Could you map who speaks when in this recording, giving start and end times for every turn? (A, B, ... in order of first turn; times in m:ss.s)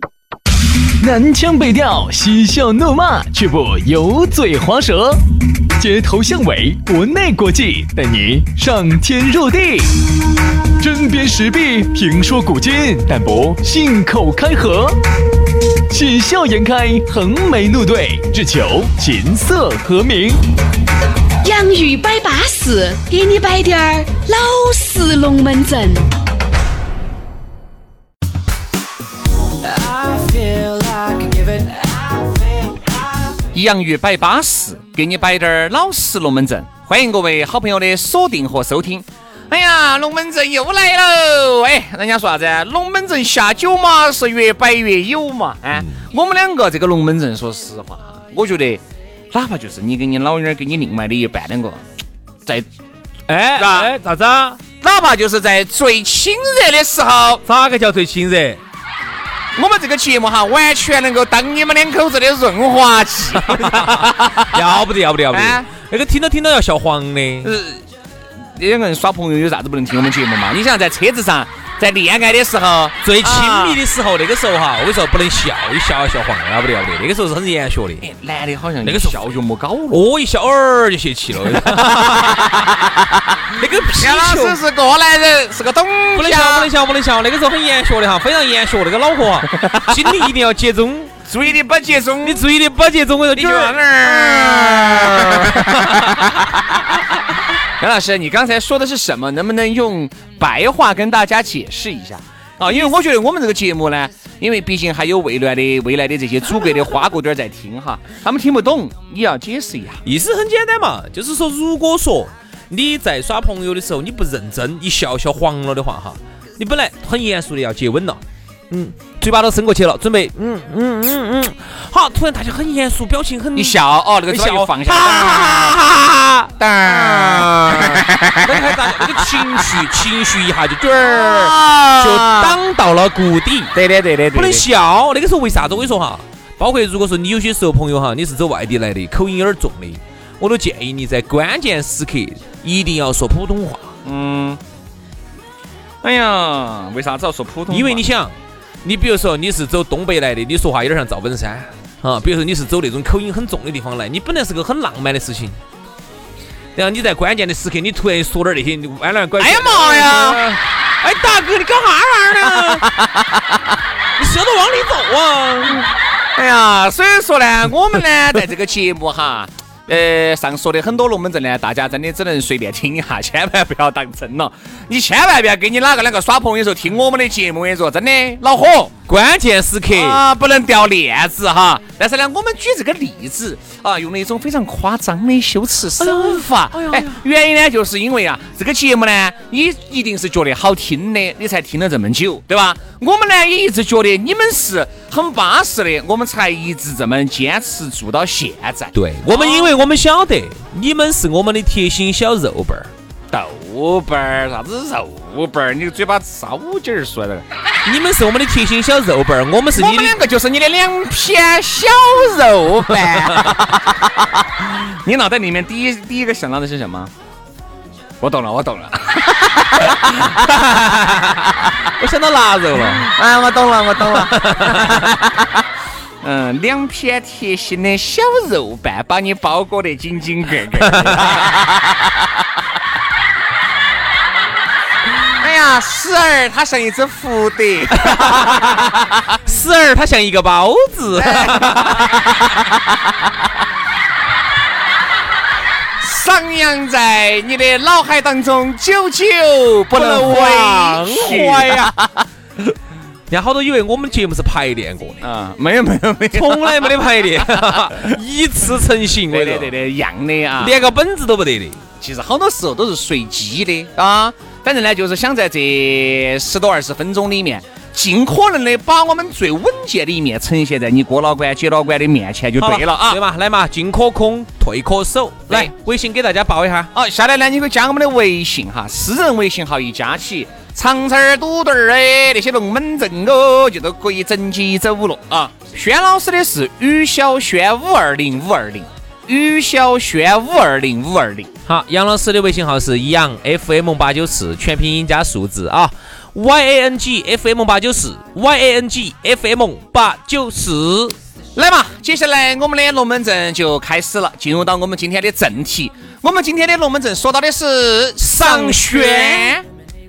0:01.0-0:05.2 A
0:05.8-0:10.0 A
0:10.8-0:15.0 A
0:15.9-0:20.4 A
0:21.4-0:26.0 B
0:29.6-0:33.0 B
0:33.5-0:48.8 C
0:49.3-0:51.8 C
0:53.3-0:54.6 D
0:53.6-0:53.9 C
0:54.8-0:57.4 C
0:57.4-0:58.6 D
0:59.6-1:04.7 C
1:03.4-1:07.5 D
1:05.3-1:05.7 C
1:07.4-1:07.8 C
1:08.6-1:13.8 C
1:13.0-1:18.1 D
1:18.0-1:20.0 C
1:18.8-1:19.2 D
1:19.9-1:22.7 D
1:21.4-1:23.4 C
1:23.5-1:24.6 D
1:24.0-1:26.7 C
1:26.1-1:31.1 D
1:29.6-1:29.9 C
1:31.3-1:32.4 C
1:32.2-1:36.4 D
1:33.4-1:36.6 C
1:37.8-1:50.0 C
1:50.0-2:13.7 D
2:03.6-2:05.8 C
2:06.6-2:09.9 C
2:11.0-2:12.6 C
2:13.8-2:14.6 C
2:14.3-2:24.0 D
2:24.0-2:24.6 C
2:26.0-2:28.0 C
2:27.7-2:35.6 D
2:36.8-2:42.9 D
2:39.4-2:40.6 C
2:42.6-2:43.6 C
2:44.2-2:45.9 D
2:46.4-2:58.9 C
2:59.1-3:00.2 D
2:59.9-3:19.8 C
3:06.0-3:07.2 D
3:18.9-3:22.9 D
3:23.3-3:27.4 C
3:27.8-3:30.2 D
3:29.8-3:37.1 C
3:38.2-3:40.4 C
3:40.0-3:43.1 D
3:42.9-3:45.6 C
3:44.0-3:45.1 D
3:46.2-3:52.0 C
3:50.8-3:51.5 D
3:55.4-3:59.3 C
3:57.9-3:58.9 D
3:59.4-4:02.3 D
4:01.1-4:03.1 C
4:06.0-4:12.3 C
4:09.9-4:11.9 D
4:13.3-4:15.2 D
4:15.2-4:18.1 C
4:16.3-4:19.7 D
4:19.3-4:20.8 C
4:20.6-4:21.8 D
4:22.0-4:33.2 C
4:32.6-4:36.9 D
4:36.9-4:51.5 C
4:51.7-5:01.2 D
5:01.5-5:09.6 C
5:08.2-5:09.6 D